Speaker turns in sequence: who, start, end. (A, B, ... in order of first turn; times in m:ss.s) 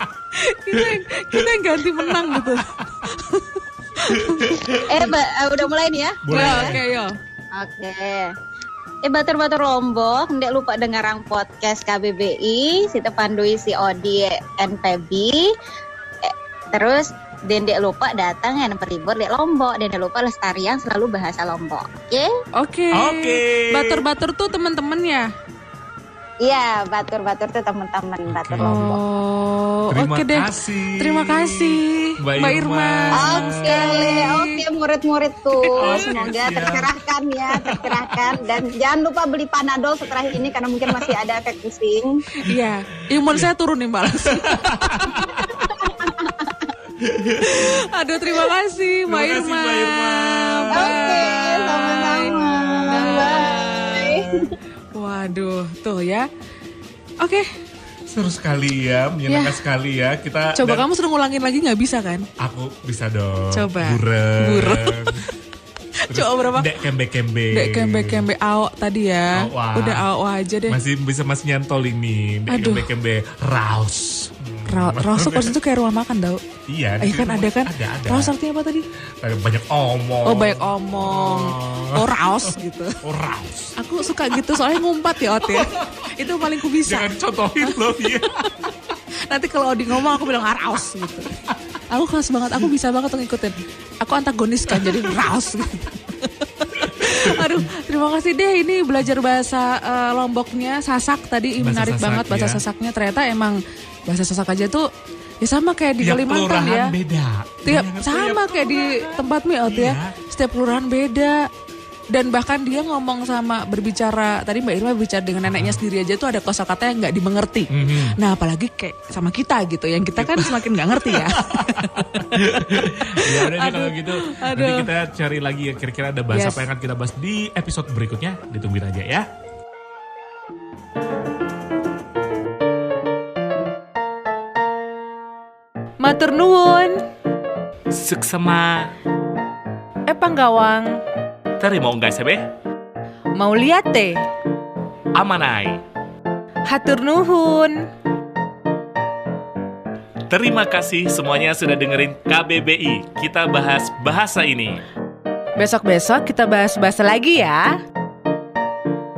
0:00.3-0:04.6 A
0:00.8-0:02.6 B
0:04.1-0:05.2 B
0:04.6-0:06.8 C
0:06.2-0:06.8 B
0:06.3-0:07.1 A
0:07.5-0:08.3 C
0:09.0-0:15.5 C
0:16.2-0:22.3 C
0:22.6-0:25.3 A
0:22.9-0:24.0 B
0:26.4-0:29.0 C
0:28.3-0:28.8 B
0:28.6-0:34.6 A
0:29.9-0:34.2 B
0:33.1-0:42.2 C
0:35.7-0:36.9 B
0:35.8-0:36.0 A
0:37.5-0:38.2 B
0:40.9-0:41.1 B
0:42.4-0:45.6 A
0:43.2-0:43.5 B
0:44.3-0:45.8 B
0:45.8-0:46.7 C
0:47.0-0:47.8 B
0:47.4-0:54.4 A
0:49.1-0:53.5 B
0:50.7-0:54.5 C
0:54.1-0:54.5 B
0:54.9-0:56.3 A
0:57.2-0:57.5 A
0:58.1-1:00.8 B
0:59.3-0:59.6 A
1:00.6-1:02.3 A
1:02.4-1:05.3 B
1:03.5-1:05.2 A
1:06.1-1:06.8 A
1:06.1-1:08.2 B
1:07.5-1:10.8 A
1:09.3-1:10.0 B
1:10.7-1:15.5 B
1:12.5-1:12.9 A
1:14.6-1:16.4 A
1:16.7-1:18.3 B
1:17.0-1:18.8 A
1:19.2-1:24.4 B
1:20.2-1:23.0 A
1:23.8-1:27.8 A
1:25.4-1:28.3 B
1:29.3-1:31.3 A
1:31.9-1:44.9 A
1:34.7-1:35.1 B
1:36.8-1:37.6 B
1:41.6-1:42.6 B
1:45.4-1:46.9 A
1:46.0-1:50.2 B
1:47.6-1:51.5 A
1:52.1-2:04.9 A
1:55.5-1:55.8 B
1:57.7-1:58.2 B
2:00.2-2:09.3 B
2:06.3-2:06.7 A
2:16.0-2:17.0 A
2:17.9-2:18.9 B
2:20.1-2:21.0 A
2:21.6-2:22.5 B
2:23.4-2:24.2 A
2:25.1-2:25.8 B
2:26.6-2:27.9 A
2:30.3-2:34.8 B
2:35.6-2:37.8 A